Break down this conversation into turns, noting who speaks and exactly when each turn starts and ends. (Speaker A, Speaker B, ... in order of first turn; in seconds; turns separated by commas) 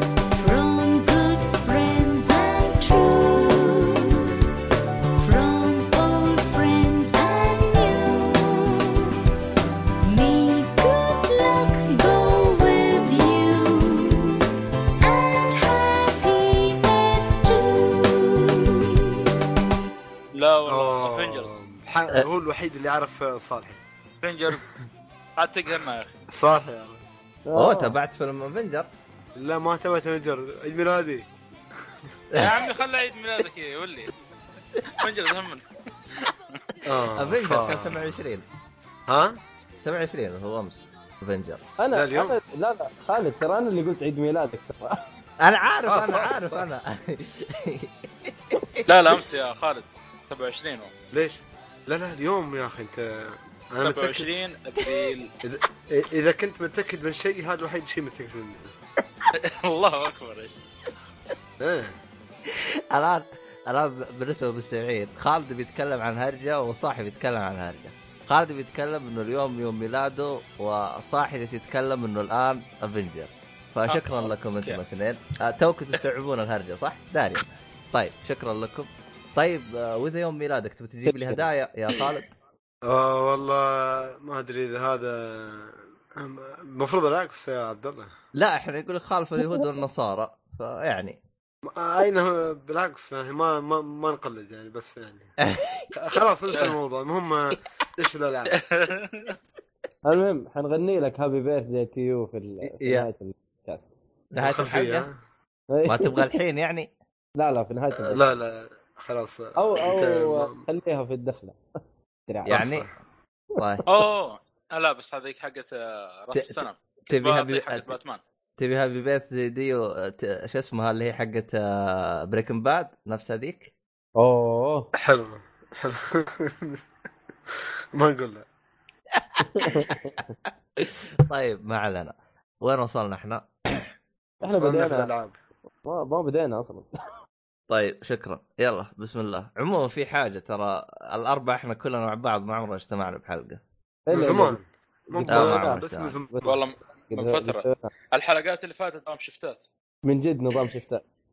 Speaker A: 0.3-4.3, Speaker A: 5.2-9.1, Speaker A: 10.0-14.5, Speaker A: 15.0-19.3, Speaker B: 20.3-21.6, Speaker C: 20.6-23.8, Speaker B: 24.2-24.8, Speaker B: 25.4-26.1, Speaker C: 26.3-27.0, Speaker D: 27.5-28.0, Speaker E: 27.5-28.9, Speaker C: 29.4-31.3, Speaker E: 32.3-32.6, Speaker B: 32.3-34.1, Speaker B: 34.9-35.6, Speaker B: 36.2-36.7, Speaker C: 36.8-38.2, Speaker E: 37.1-38.5, Speaker C: 39.1-39.4, Speaker E: 39.8-41.6, Speaker D: 41.8-45.0, Speaker C: 41.9-42.4, Speaker E: 45.4-48.8, Speaker C: 45.9-46.7, Speaker B: 48.9-50.9, Speaker C: 51.1-54.3, Speaker B: 53.8-55.3, Speaker C: 55.4-58.8, Speaker B: 59.3-60.6, Speaker C: 61.6-62.0, Speaker E: 62.5-82.3, Speaker B: 73.9-74.8, Speaker D: 81.0-81.5, Speaker C: 82.8-88.1, Speaker E: 88.3-91.2, Speaker C: 91.7-95.3, Speaker E: 95.5-95.9, Speaker C: 95.9-98.5, Speaker B: 98.5-99.3, Speaker D: 100.0-103.9, Speaker E: 102.6-103.1, Speaker E: 104.3-105.1, Speaker C: 104.4-105.2, Speaker D: 105.7-106.3, Speaker E: 105.8-106.9, Speaker D: 107.4-108.3, Speaker C: 108.0-110.6, Speaker D: 109.5-111.6, Speaker D: 112.3-112.6, Speaker C: 112.5-112.9, Speaker E: 112.5-112.9, Speaker D: 113.6-114.0, Speaker E: 113.6-113.8, Speaker B: 113.8-118.2, Speaker E: 116.3-117.9, Speaker E: 118.6-123.7, Speaker D: 124.2-124.9, Speaker C: 124.9-126.8, Speaker C: 127.5-128.5, Speaker E: 129.1-133.8, Speaker D: 129.4-130.3, Speaker C: 134.4-135.3, Speaker D: 134.4-135.1, Speaker D: 135.8-136.9, Speaker E: 137.7-143.6, Speaker D: 144.1-144.6, Speaker C: 144.1-146.6, Speaker D: 145.1-146.5, Speaker E: 145.3-146.2, Speaker B: 146.4-149.7, Speaker D: 147.1-147.9, Speaker D: 150.1-151.0